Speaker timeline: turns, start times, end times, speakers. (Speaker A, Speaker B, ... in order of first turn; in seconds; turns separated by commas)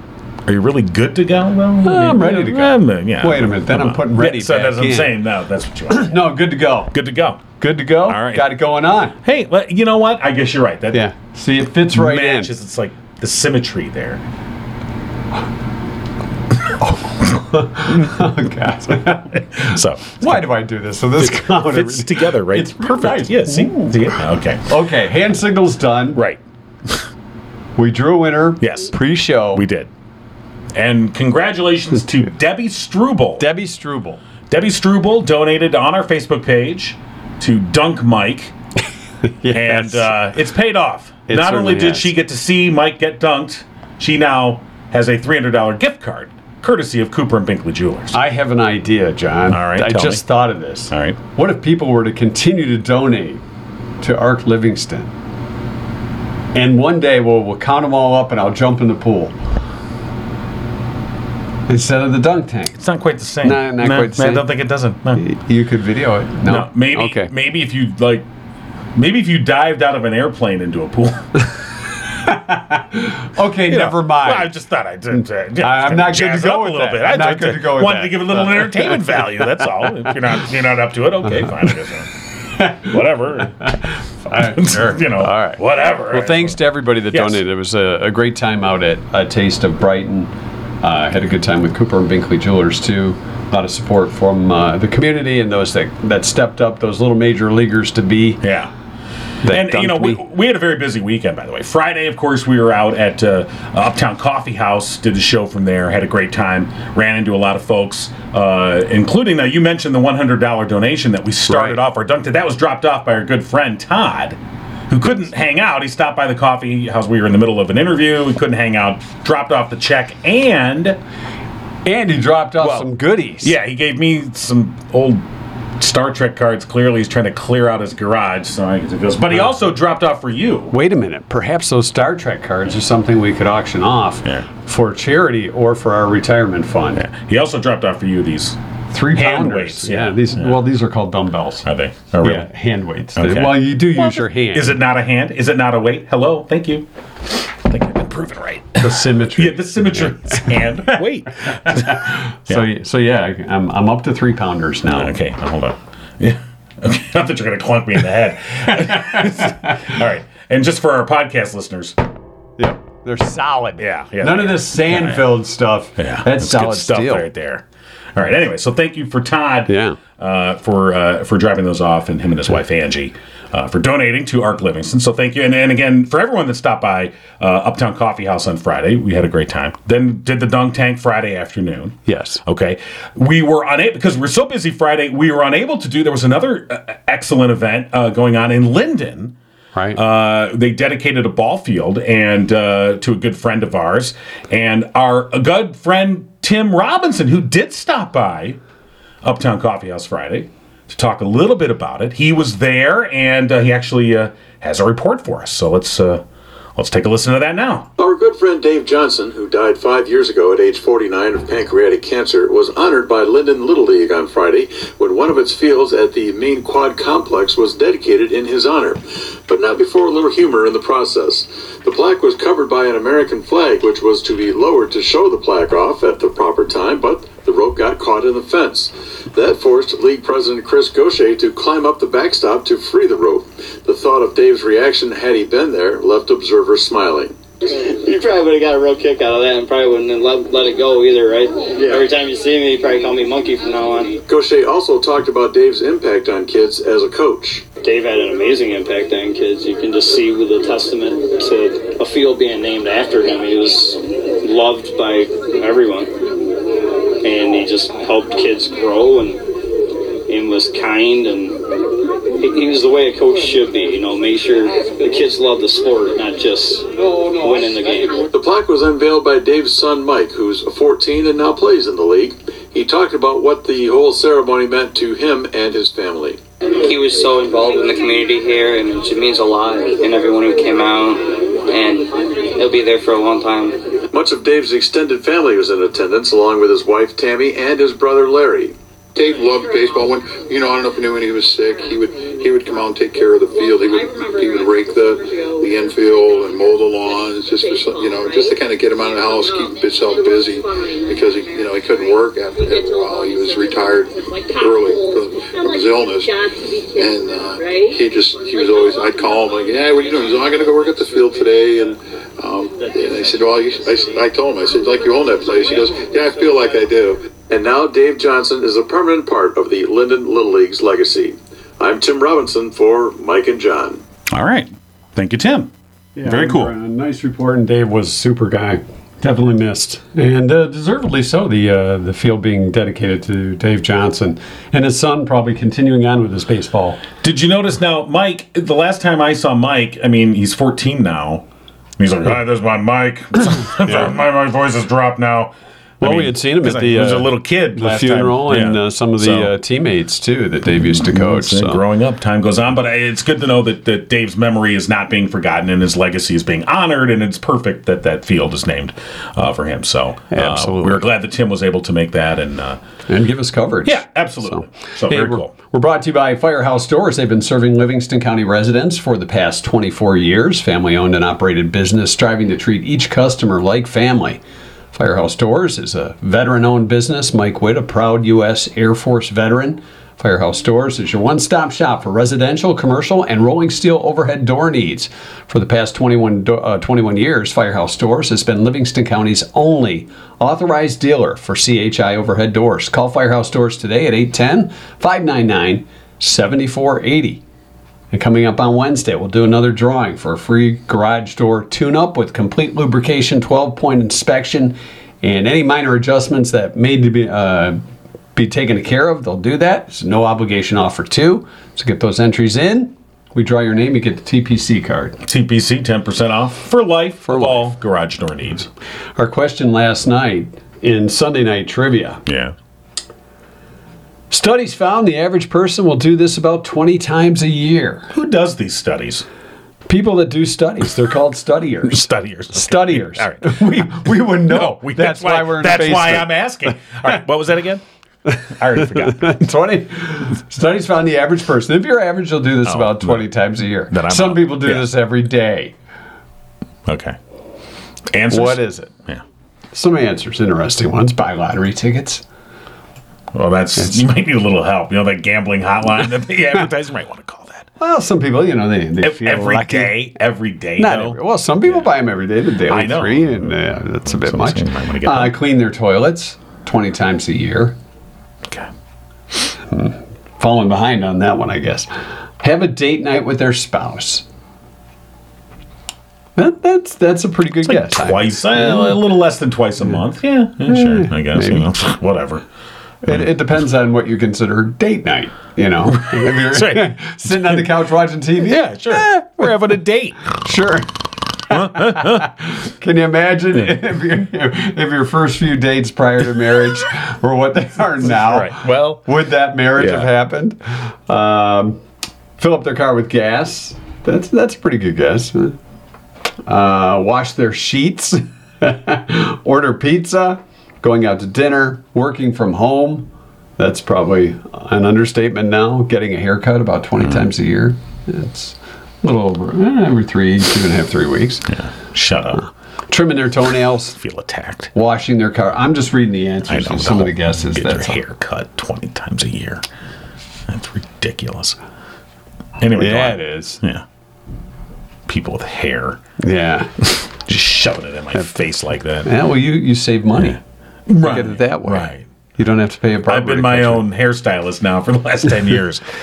Speaker A: 0.5-6.3, Speaker B: 1.8-5.2, Speaker B: 5.9-6.9, Speaker A: 6.9-7.4, Speaker B: 7.6-9.2, Speaker A: 8.0-8.6, Speaker A: 9.2-11.1, Speaker B: 10.9-12.5, Speaker A: 11.9-14.2, Speaker B: 16.8-26.2, Speaker A: 19.5-20.4, Speaker A: 21.2-24.6, Speaker A: 26.1-27.0, Speaker B: 27.8-29.6, Speaker A: 28.6-28.9, Speaker A: 29.5-29.9, Speaker A: 30.7-33.5, Speaker B: 33.4-34.2, Speaker A: 34.5-38.5, Speaker B: 39.2-40.1, Speaker A: 39.5-48.2, Speaker B: 41.3-42.1, Speaker B: 48.1-53.4, Speaker A: 49.5-50.2, Speaker A: 50.9-51.2, Speaker B: 54.0-55.1, Speaker B: 56.5-59.3, Speaker B: 61.7-62.8, Speaker A: 62.7-65.2, Speaker B: 63.4-64.5, Speaker B: 65.2-67.3, Speaker A: 66.4-68.3, Speaker A: 68.9-71.5, Speaker B: 72.2-74.5, Speaker A: 73.7-82.1, Speaker B: 75.1-79.3, Speaker A: 82.6-83.7, Speaker B: 84.2-98.4, Speaker A: 84.3-86.6, Speaker A: 87.1-87.4, Speaker A: 98.4-98.7, Speaker B: 99.4-100.2, Speaker A: 99.5-121.0, Speaker B: 111.5-111.8, Speaker B: 121.8-123.5, Speaker A: 122.6-122.9, Speaker A: 123.4-125.2, Speaker A: 125.8-130.7, Speaker B: 130.7-137.0, Speaker A: 136.9-138.6, Speaker B: 138.9-141.7, Speaker A: 139.1-140.6, Speaker A: 141.6-142.5, Speaker B: 142.2-144.8, Speaker A: 143.2-152.7, Speaker B: 148.8-150.9, Speaker B: 151.5-155.2, Speaker A: 154.8-161.9, Speaker B: 158.9-159.7, Speaker B: 162.6-167.3, Speaker A: 163.8-165.4, Speaker A: 166.0-189.3, Speaker B: 169.7-170.0, Speaker B: 182.1-182.4, Speaker B: 189.7-190.0, Speaker A: 189.9-198.6, Speaker A: 199.2-206.2, Speaker A: 206.8-207.9, Speaker C: 208.0-237.3, Speaker D: 237.7-244.2, Speaker C: 244.3-247.7, Speaker D: 247.8-256.1, Speaker D: 257.2-259.4, Speaker D: 260.3-261.6, Speaker D: 262.4-268.3, Speaker C: 268.3-276.4, Speaker E: 276.8-283.8, Speaker C: 284.1-288.7, Speaker F: 289.1-317.2, Speaker C: 317.5-324.0, Speaker A: 324.3-325.7, Speaker B: 326.1-337.0, Speaker A: 326.2-326.7, Speaker A: 337.2-341.4, Speaker A: 342.0-349.5, Speaker B: 346.0-351.8, Speaker A: 350.7-362.8, Speaker B: 360.3-361.0, Speaker B: 363.1-374.4, Speaker A: 363.8-365.5, Speaker B: 374.9-397.4, Speaker B: 398.1-407.8, Speaker B: 408.3-415.2, Speaker A: 415.2-418.7, Speaker B: 417.3-417.7, Speaker B: 419.2-422.2, Speaker A: 422.2-422.5, Speaker B: 424.3-428.1, Speaker A: 428.1-429.2, Speaker B: 429.9-436.4, Speaker A: 431.8-437.8, Speaker B: 438.3-445.8, Speaker A: 438.5-439.4, Speaker A: 442.6-443.3, Speaker A: 443.9-444.9, Speaker A: 446.9-447.2, Speaker A: 448.1-449.2, Speaker B: 448.3-448.9, Speaker B: 449.7-452.2, Speaker A: 453.3-457.7, Speaker B: 457.8-460.1, Speaker A: 459.0-461.9, Speaker B: 460.8-467.8, Speaker A: 462.7-465.4, Speaker B: 469.7-474.2, Speaker B: 476.4-478.9, Speaker A: 477.6-482.4, Speaker B: 480.6-481.7, Speaker B: 483.0-489.5, Speaker A: 486.0-487.6, Speaker A: 488.4-490.4, Speaker B: 490.3-490.9, Speaker B: 491.5-501.8, Speaker A: 491.5-492.3, Speaker A: 498.0-499.1, Speaker A: 499.8-500.1, Speaker B: 502.4-505.6, Speaker B: 506.4-521.5, Speaker A: 521.5-522.5, Speaker B: 522.4-524.0, Speaker A: 524.0-524.7, Speaker B: 524.7-528.0, Speaker A: 526.5-529.6, Speaker A: 530.5-531.6, Speaker A: 532.6-533.8, Speaker B: 532.8-533.6, Speaker A: 535.1-536.0, Speaker B: 536.2-536.7, Speaker A: 536.8-539.1, Speaker B: 539.0-540.4, Speaker A: 540.9-542.0, Speaker B: 541.0-543.9, Speaker A: 543.0-545.8